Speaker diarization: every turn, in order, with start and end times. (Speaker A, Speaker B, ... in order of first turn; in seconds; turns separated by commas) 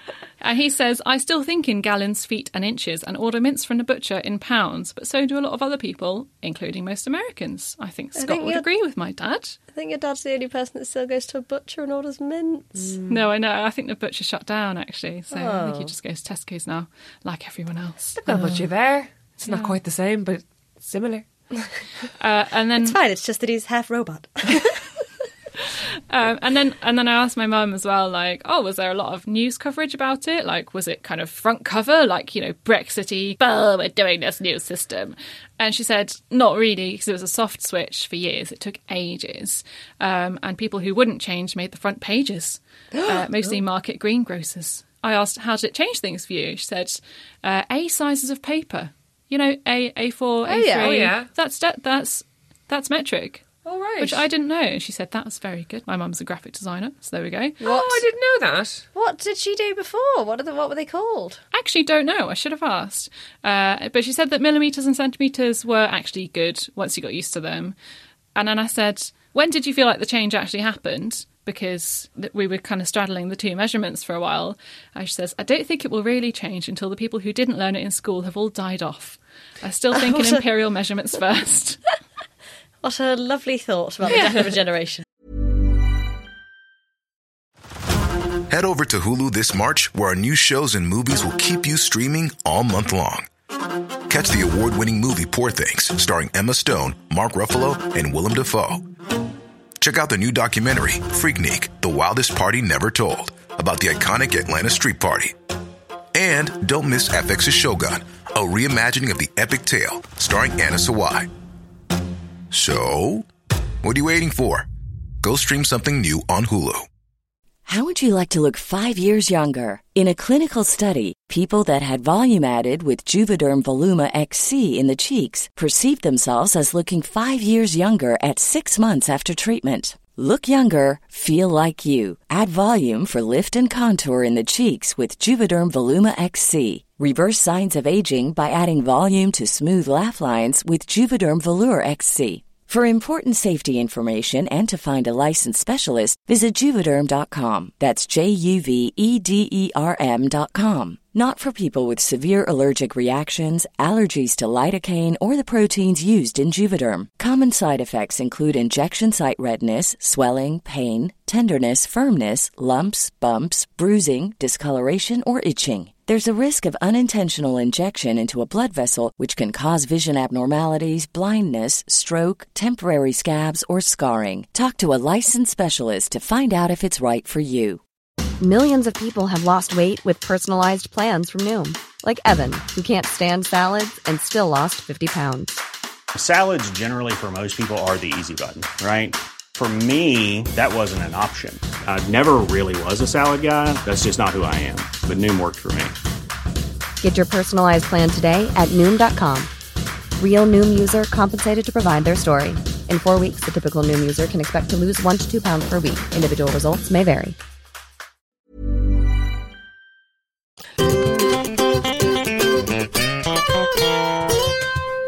Speaker A: 0.4-9.6, Speaker B: 8.2-8.7, Speaker B: 9.7-13.0, Speaker C: 12.8-13.2, Speaker A: 13.1-18.3, Speaker B: 15.3-15.9, Speaker C: 18.2-21.2, Speaker A: 19.4-19.7, Speaker A: 22.2-23.0, Speaker B: 22.8-24.8, Speaker A: 26.1-53.5, Speaker B: 42.9-43.3, Speaker B: 50.5-51.1, Speaker C: 50.8-51.3, Speaker C: 53.6-54.2, Speaker A: 54.0-57.6, Speaker B: 57.6-58.0, Speaker C: 57.6-58.9, Speaker B: 58.9-61.4, Speaker A: 61.5-67.7, Speaker A: 68.3-81.8, Speaker B: 79.9-80.4, Speaker B: 82.8-85.0, Speaker A: 84.1-84.4, Speaker D: 88.5-93.3, Speaker D: 94.1-98.8, Speaker D: 99.8-105.3, Speaker D: 106.1-111.3, Speaker D: 112.5-113.3, Speaker D: 113.8-114.7, Speaker D: 115.2-116.8, Speaker E: 117.7-177.8, Speaker F: 178.4-185.6, Speaker G: 186.1-195.9, Speaker F: 197.0-199.5, Speaker F: 200.2-207.3